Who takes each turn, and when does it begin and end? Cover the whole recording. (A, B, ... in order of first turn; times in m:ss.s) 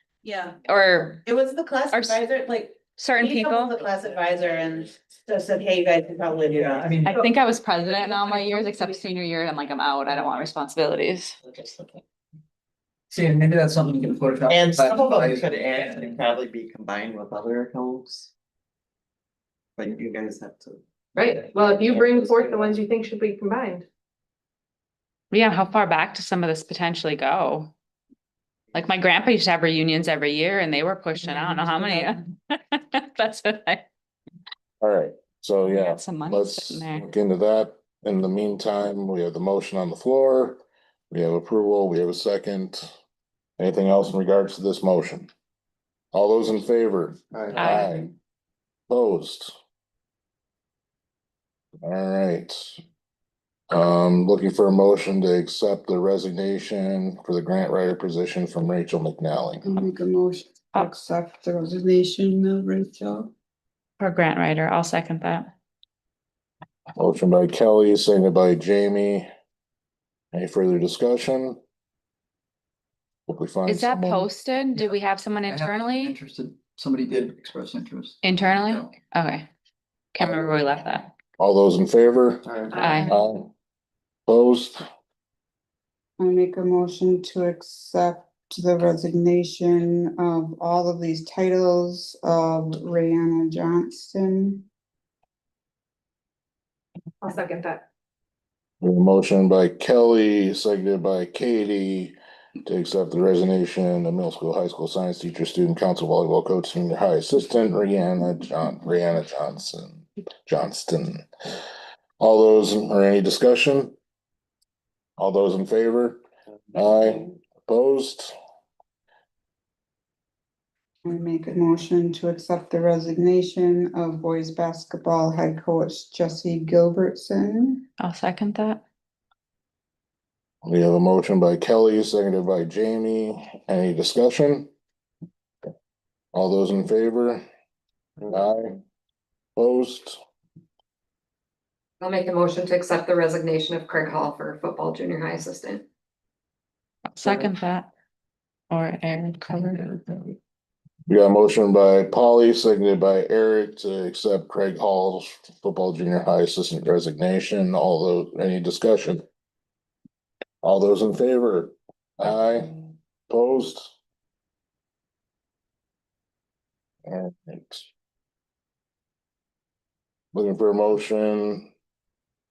0:00.2-0:00.6 A
0:00.6-0:01.2 B
0:01.2-0:07.0 A
0:01.9-0:02.2 B
0:03.0-0:03.8 B
0:03.9-0:04.7 C
0:06.5-0:07.0 C
0:07.0-0:11.4 B
0:08.5-0:08.8 D
0:11.4-0:12.0 C
0:13.1-0:16.2 E
0:14.5-0:18.3 C
0:19.8-0:22.8 C
0:21.2-0:22.8 F
0:22.5-0:23.8 D
0:25.3-0:27.7 B
0:28.7-0:33.8 B
0:34.8-0:40.6 G
0:35.7-0:37.1 B
0:41.1-0:42.9 G
0:43.6-0:45.3 G
0:46.1-0:48.1 G
0:47.6-0:48.1 B
0:48.9-0:49.5 G
0:51.8-0:52.8 G
0:53.7-0:59.7 G
0:59.6-1:03.3 H
1:04.0-1:05.5 B
1:07.0-1:09.3 G
1:10.3-1:11.6 G
1:13.3-1:14.3 G
1:13.7-1:16.2 B
1:15.5-1:18.2 E
1:18.2-1:19.5 B
1:20.1-1:21.1 B
1:21.4-1:22.4 G
1:22.8-1:23.1 B
1:22.8-1:23.1 H
1:23.0-1:23.5 G
1:24.3-1:24.8 G
1:26.2-1:34.6 H
1:37.2-1:37.8 D
1:38.8-1:42.2 G
1:42.7-1:51.3 G
1:52.2-1:53.9 G
1:55.2-1:56.2 G
1:56.7-1:58.3 G
2:01.0-2:07.8 H
2:08.0-2:08.8 B
2:10.6-2:14.7 G
2:16.3-2:17.4 G
2:18.3-2:18.8 G
2:19.6-2:20.2 G
2:22.0-2:25.8 F
2:27.1-2:27.9 B
2:28.7-2:30.3 B
2:31.1-2:39.2 G
2:40.6-2:43.9 G
2:47.1-2:47.9 G
2:50.3-2:51.7 G